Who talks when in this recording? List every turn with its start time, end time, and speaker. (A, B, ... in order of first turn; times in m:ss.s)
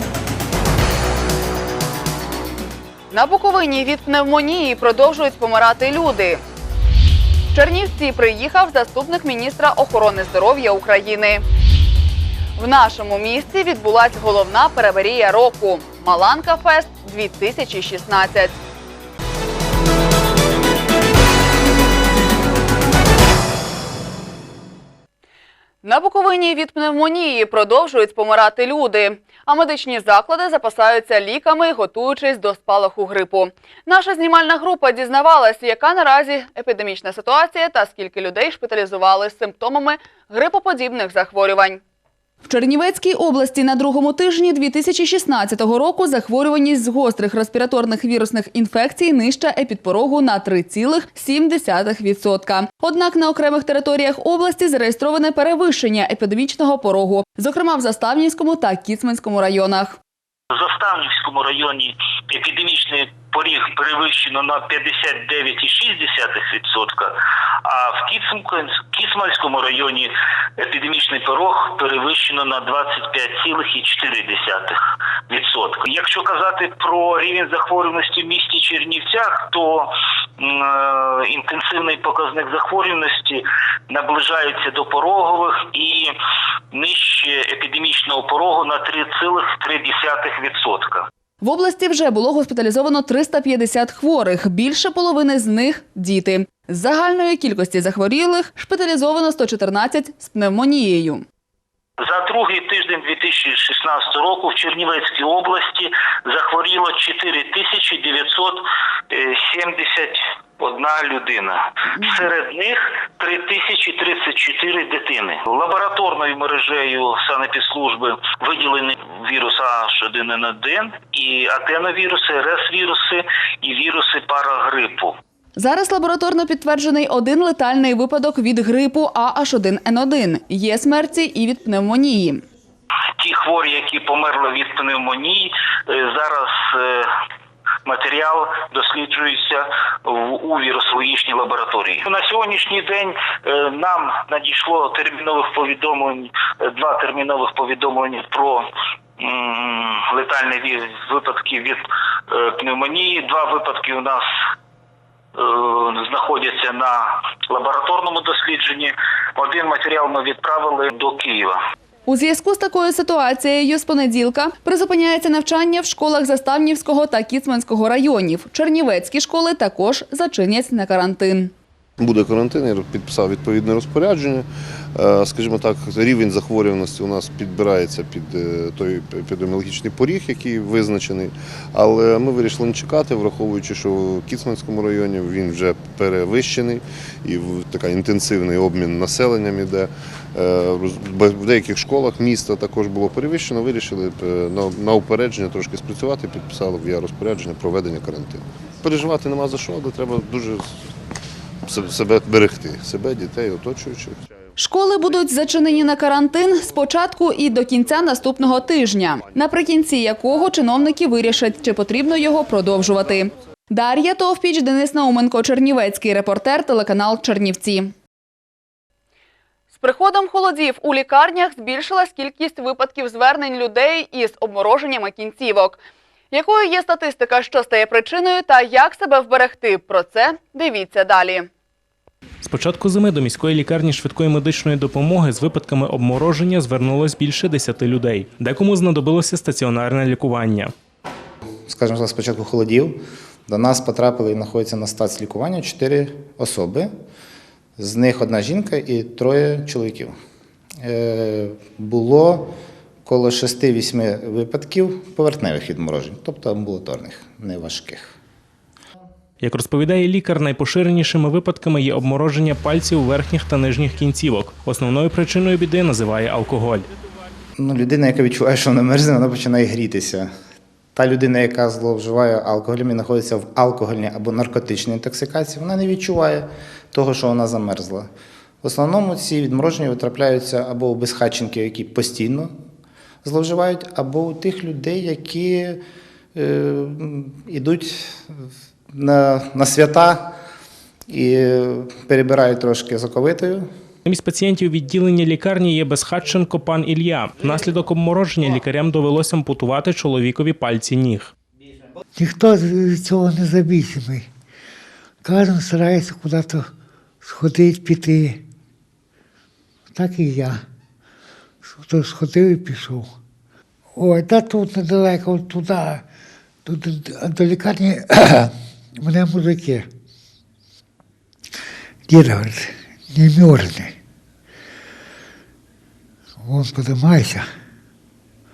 0:03.1-0:06.4 A
0:07.5-0:11.4 A
0:12.6-0:18.6 A
0:25.8-0:41.8 A
0:42.4-1:00.0 A
1:00.6-1:07.1 B
1:07.7-1:14.7 B
1:15.3-1:26.1 B
1:26.7-1:31.0 B
1:31.4-1:41.2 A
1:42.0-1:51.6 B
1:52.1-2:05.1 B
2:05.6-2:12.4 A
2:13.2-2:17.1 B
2:17.9-2:28.6 B
2:29.2-2:31.8 B
2:32.3-2:34.2 B
2:35.4-2:37.0 B
2:37.5-2:41.6 B
2:42.1-2:51.5 A
2:52.0-3:20.6 C
3:21.6-3:24.2 C
3:24.6-3:37.9 A
3:39.7-3:45.8 A
3:46.3-3:51.5 A
3:52.4-4:00.7 D
4:01.7-4:06.9 E
4:07.8-4:10.2 E
4:10.8-4:12.5 E
4:13.1-4:18.1 E
4:19.4-4:26.9 D
4:27.6-4:30.3 E
4:31.0-4:38.1 E
4:38.6-4:42.5 E
4:43.2-4:45.8 E
4:46.4-4:48.3 E
4:49.0-4:50.4 E
4:51.1-4:53.6 E
4:54.0-5:01.3 D
5:02.2-5:04.2 F
5:05.2-5:06.7 F
5:07.2-5:08.4 F
5:10.0-5:10.6 F
5:11.8-5:13.1 F
5:14.0-5:16.0 F
5:16.7-5:18.5 F
5:19.0-5:19.9 F
5:22.1-5:23.9 F
5:26.4-5:27.5 F